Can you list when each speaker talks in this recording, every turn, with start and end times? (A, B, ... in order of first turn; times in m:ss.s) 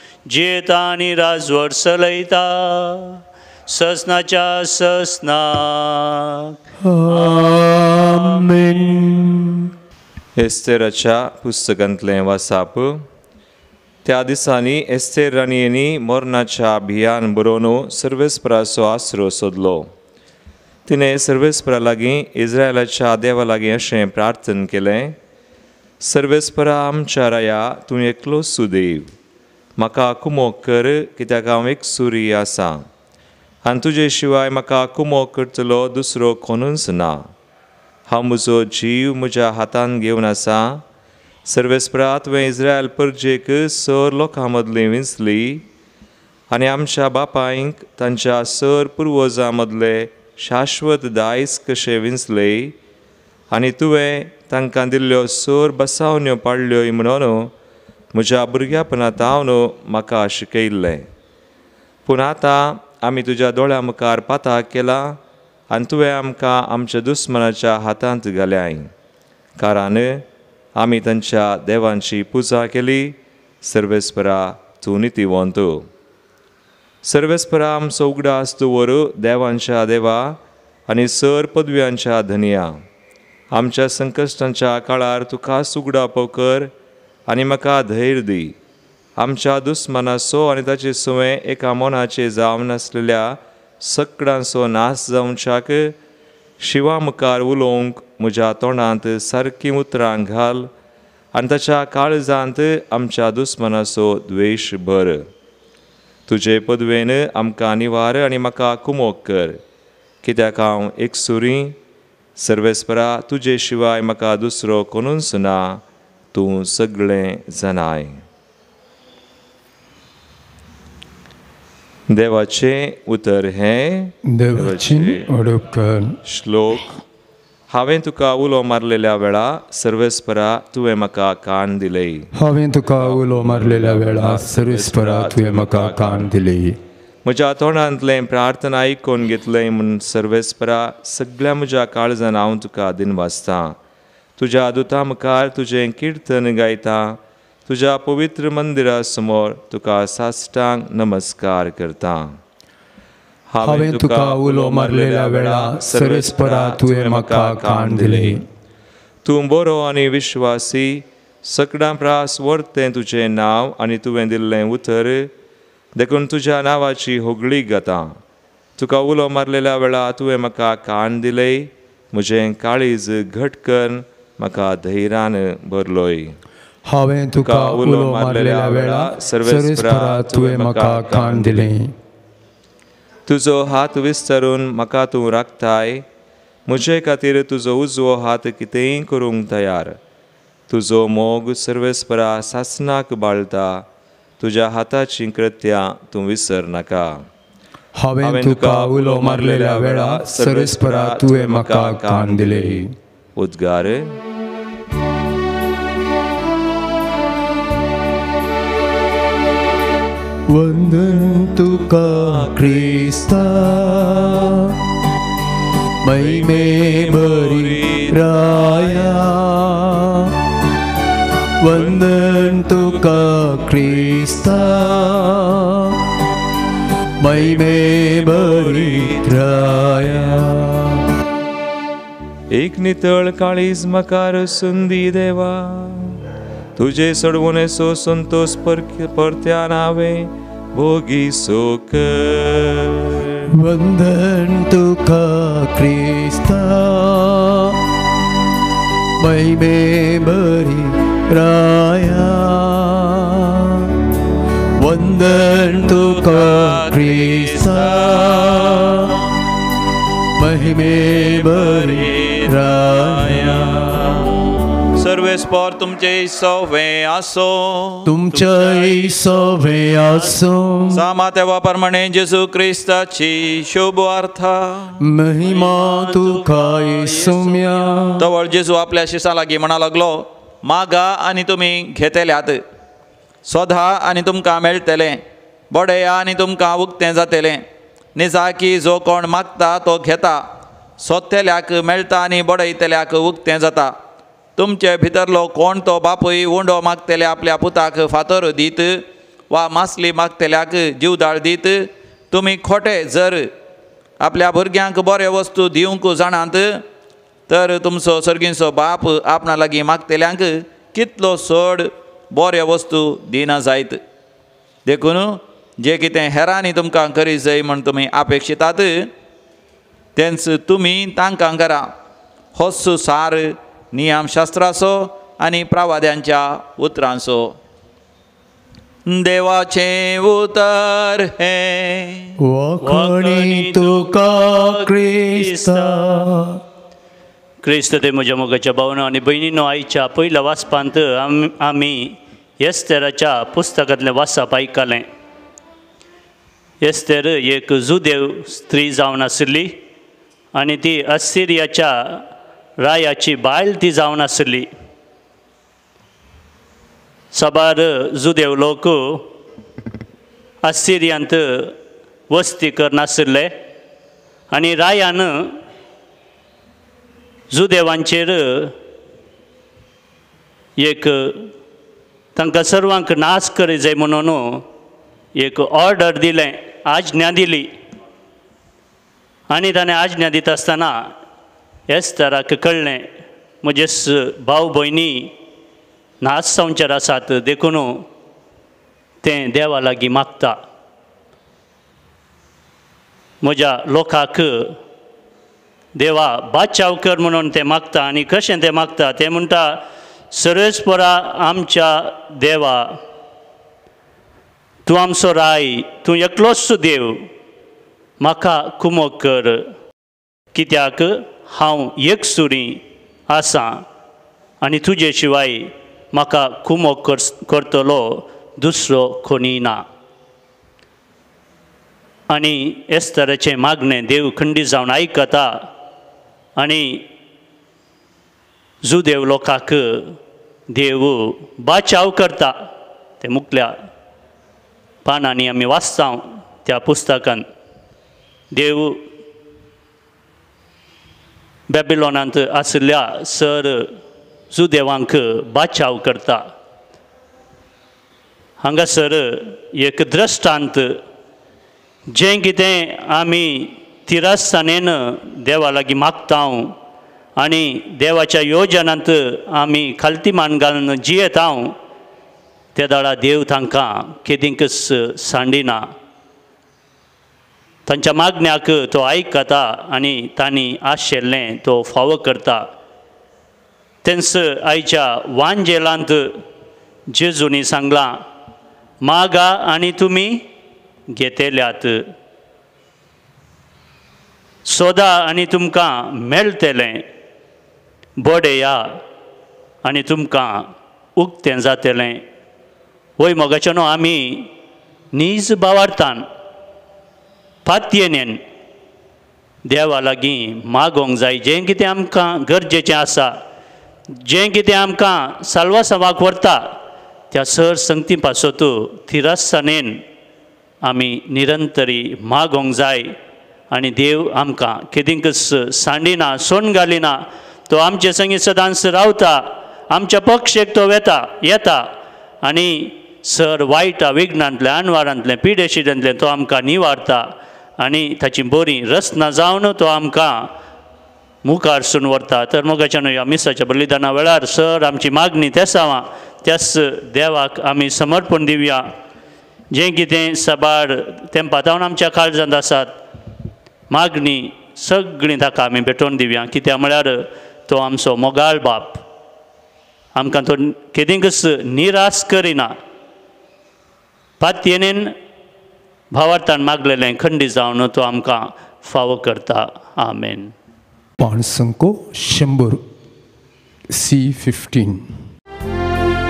0:00.3-0:06.6 A
0:06.8-0:09.7 B
0:07.1-0:08.4 A
0:10.4-0:13.0 C
0:14.0-0:19.9 C
0:20.9-0:25.2 C
0:26.0-0:29.1 C
0:29.8-0:32.8 C
0:33.6-0:37.2 C
0:38.1-0:40.8 C
0:41.5-0:45.6 C
0:46.5-0:52.8 C
0:53.5-0:57.5 C
0:58.1-1:01.1 C
1:02.1-1:05.2 C
1:05.7-1:08.9 C
1:09.6-1:10.2 C
1:10.8-1:15.8 C
1:17.0-1:22.7 C
1:23.5-1:26.7 C
1:27.3-1:28.6 C
1:29.2-1:36.0 C
1:36.6-1:40.7 C
1:41.3-1:45.2 C
1:46.3-1:49.6 C
1:50.2-1:51.8 C
1:52.4-1:58.2 C
2:02.1-2:05.3 C
2:04.3-2:06.2 B
2:06.2-2:06.9 C
2:07.7-2:12.3 C
2:12.4-2:16.8 B
2:13.0-2:16.3 C
2:17.2-2:23.8 C
2:24.4-2:32.4 C
2:33.5-2:38.4 C
2:33.6-2:38.4 B
2:39.2-2:45.3 C
2:46.0-2:48.2 C
2:48.8-2:56.4 C
2:56.9-3:01.9 B
2:57.4-3:01.7 C
3:03.3-3:06.1 C
3:06.7-3:10.0 C
3:10.7-3:13.9 C
3:14.4-3:17.2 C
3:18.0-3:22.9 B
3:18.2-3:22.8 C
3:23.4-3:24.2 C
3:30.5-3:34.8 B
3:36.0-3:40.4 B
3:36.5-3:38.1 C
3:41.6-3:46.0 B
3:47.2-3:51.0 B
3:48.5-3:49.3 C
3:52.5-3:56.2 C
3:56.8-4:03.2 C
4:03.5-4:07.8 B
4:09.2-4:13.9 B
4:14.8-4:19.2 B
4:16.3-4:18.9 D
4:20.4-4:24.1 B
4:21.6-4:22.5 D
4:23.2-4:24.3 D
4:24.9-4:28.1 D
4:28.0-4:31.0 B
4:28.3-4:30.4 A
4:30.9-4:35.0 D
4:35.0-4:38.3 B
4:35.4-4:38.1 A
4:38.2-4:42.6 D
4:43.4-4:47.6 D
4:48.2-4:50.4 D
4:51.0-4:53.9 D
4:54.6-5:03.5 D
5:04.2-5:06.8 D
5:07.5-5:14.0 D
5:14.9-5:19.1 D
5:20.2-5:21.9 D
5:22.6-5:27.6 D
5:29.1-5:32.3 D
5:32.4-5:36.6 B
5:32.8-5:36.3 A
5:37.6-5:45.1 A
5:46.8-5:49.8 A
5:50.5-5:52.3 A
5:52.8-5:54.7 A
5:57.3-5:59.3 A
6:00.6-6:01.8 A
6:02.3-6:03.5 A
6:04.5-6:05.6 A
6:07.5-6:08.7 A
6:10.8-6:11.5 A
6:12.4-6:14.6 A
6:15.4-6:17.7 A
6:19.5-6:21.1 A
6:21.9-6:23.1 A
6:23.6-6:25.4 A
6:26.2-6:28.1 A
6:29.2-6:30.6 A
6:33.4-6:34.8 A
6:36.0-6:43.0 A
6:44.9-6:47.3 A
6:48.2-6:49.7 A
6:50.5-6:53.8 A
6:54.6-6:59.8 A
7:02.3-7:05.7 A
7:06.6-7:07.1 A
7:08.8-7:10.2 A
7:10.7-7:12.7 A
7:13.2-7:13.8 A
7:15.0-7:17.5 A
7:18.5-7:19.0 A
7:21.7-7:24.0 A
7:24.5-7:26.5 A
7:28.6-7:31.0 A
7:32.1-7:36.8 A
7:37.4-7:41.8 A
7:42.8-7:45.9 A
7:47.9-7:52.7 A
7:54.0-7:56.4 A
7:57.1-7:58.2 A
7:59.0-8:00.5 A
8:01.1-8:02.1 A
8:04.6-8:07.1 A
8:08.2-8:09.0 A
8:09.8-8:12.2 A
8:13.2-8:14.5 A
8:15.1-8:16.3 A
8:17.6-8:18.4 A
8:19.7-8:23.4 A
8:24.2-8:26.8 A
8:27.3-8:30.0 A
8:30.8-8:33.1 A
8:33.7-8:41.9 A
8:42.4-8:50.5 A
8:51.4-8:58.9 A
8:59.7-9:03.0 A
9:03.9-9:09.0 A
9:10.2-9:12.7 A
9:14.4-9:15.1 A
9:16.1-9:20.5 A
9:21.2-9:22.8 B
9:23.9-9:25.1 B